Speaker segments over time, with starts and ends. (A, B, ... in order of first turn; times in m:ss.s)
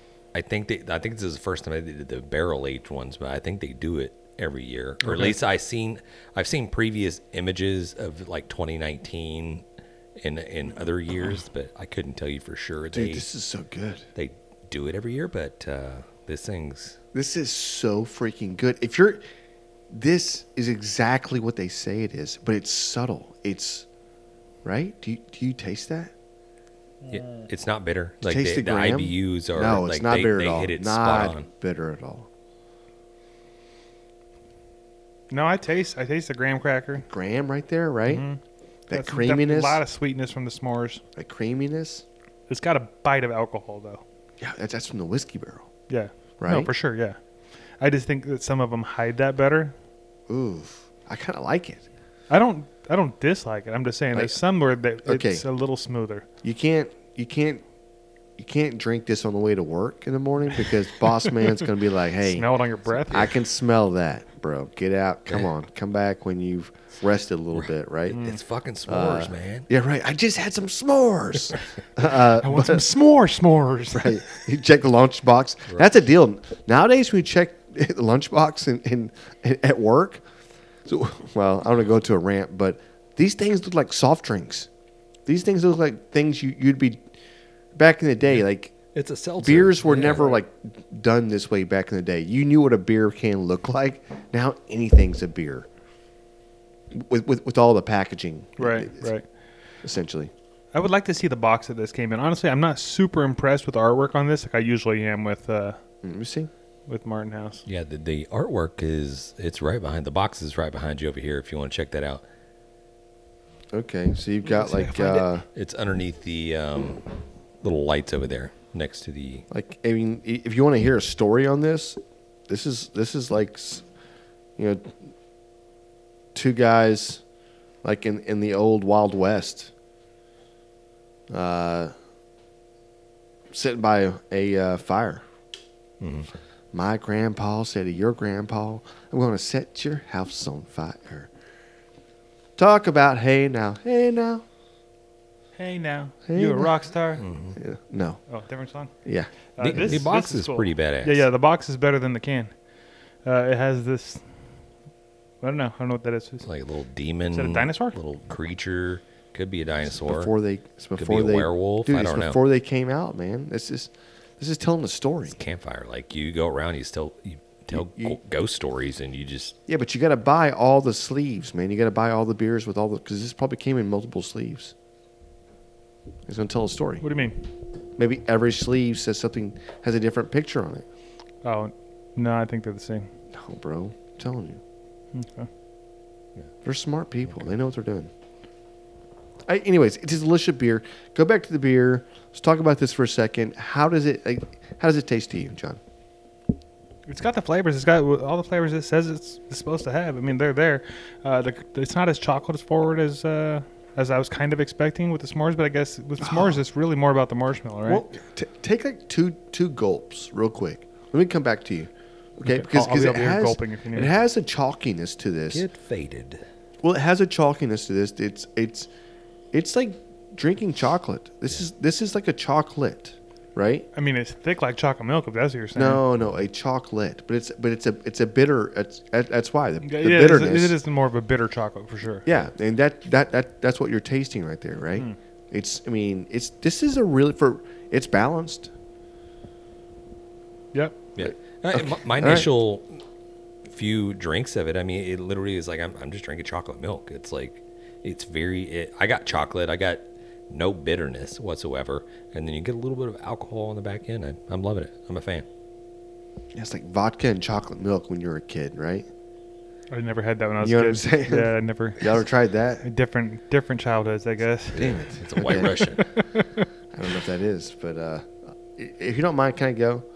0:00.3-0:09.6 A
0:10.2-0:13.2 A
0:12.9-0:14.1 B
0:14.2-0:17.0 A
0:17.1-0:19.2 B
0:19.9-0:23.8 B
0:24.6-0:26.1 B
0:27.1-0:31.5 A
0:28.2-0:32.3 B
0:35.3-0:37.0 C
0:37.0-0:38.2 B
0:38.1-0:38.4 C
0:38.9-0:39.8 B
0:38.9-0:41.0 C
0:41.2-0:42.0 B
0:42.5-0:44.0 C
0:44.4-0:45.7 B
0:45.9-0:47.2 C
0:46.4-0:46.7 B
0:47.8-0:49.7 C
0:50.3-0:51.8 B
0:52.3-0:56.2 C
0:55.0-0:55.4 B
0:56.4-0:57.6 B
0:58.4-1:02.5 B
1:02.2-1:03.3 C
1:03.1-1:08.2 B
1:07.5-1:09.7 A
1:08.1-1:08.4 C
1:08.8-1:12.8 B
1:12.4-1:14.2 C
1:13.9-1:20.2 B
1:20.8-1:24.7 B
1:25.2-1:27.0 B
1:27.7-1:28.8 B
1:28.9-1:30.2 A
1:29.4-1:35.7 B
1:29.9-1:30.4 C
1:36.9-1:39.1 B
1:38.6-1:39.2 C
1:39.8-1:40.3 B
1:40.7-1:45.8 C
1:46.0-1:46.5 B
1:46.9-1:47.6 C
1:47.6-1:52.2 A
1:53.7-1:55.4 B
1:54.4-1:55.2 C
1:55.5-1:57.1 A
1:57.6-1:59.4 A
1:59.5-2:03.8 B
2:04.6-2:05.0 B
2:06.3-2:07.2 B
2:07.8-2:09.7 B
2:11.3-2:11.9 B
2:13.5-2:15.2 B
2:16.0-2:16.3 A
2:16.7-2:21.3 B
2:22.6-2:24.4 B
2:25.6-2:27.2 C
2:26.2-2:26.9 B
2:27.2-2:27.6 A
2:27.6-2:28.2 B
2:28.3-2:28.9 C
2:29.0-2:30.0 B
2:29.6-2:32.6 C
2:29.6-2:31.2 A
2:33.2-2:34.2 C
2:35.4-2:36.4 C
2:36.4-2:40.3 A
2:37.3-2:38.0 C
2:40.0-2:45.4 B
2:41.0-2:42.4 A
2:45.3-2:49.6 A
2:47.7-2:48.2 B
2:49.7-2:54.7 B
2:56.2-2:57.0 B
2:57.0-2:57.4 C
2:58.0-3:00.8 B
3:01.4-3:03.1 C
3:03.3-3:04.6 B
3:05.1-3:05.5 C
3:06.6-3:08.1 B
3:09.4-3:15.8 B
3:17.1-3:28.0 C
3:26.2-3:26.6 B
3:27.8-3:35.6 B
3:32.4-3:34.1 C
3:35.5-3:36.4 A
3:36.8-3:38.9 B
3:39.5-3:43.9 B
3:43.9-3:46.0 C
3:45.7-3:50.8 B
3:49.8-3:52.2 C
3:52.2-3:58.7 B
4:01.2-4:03.0 A
4:01.2-4:02.5 B
4:03.7-4:15.4 A
4:16.5-4:19.1 B
4:19.9-4:22.2 C
4:20.6-4:22.8 B
4:22.8-4:26.6 C
4:24.7-4:26.1 A
4:24.8-4:25.8 B
4:26.9-4:30.0 B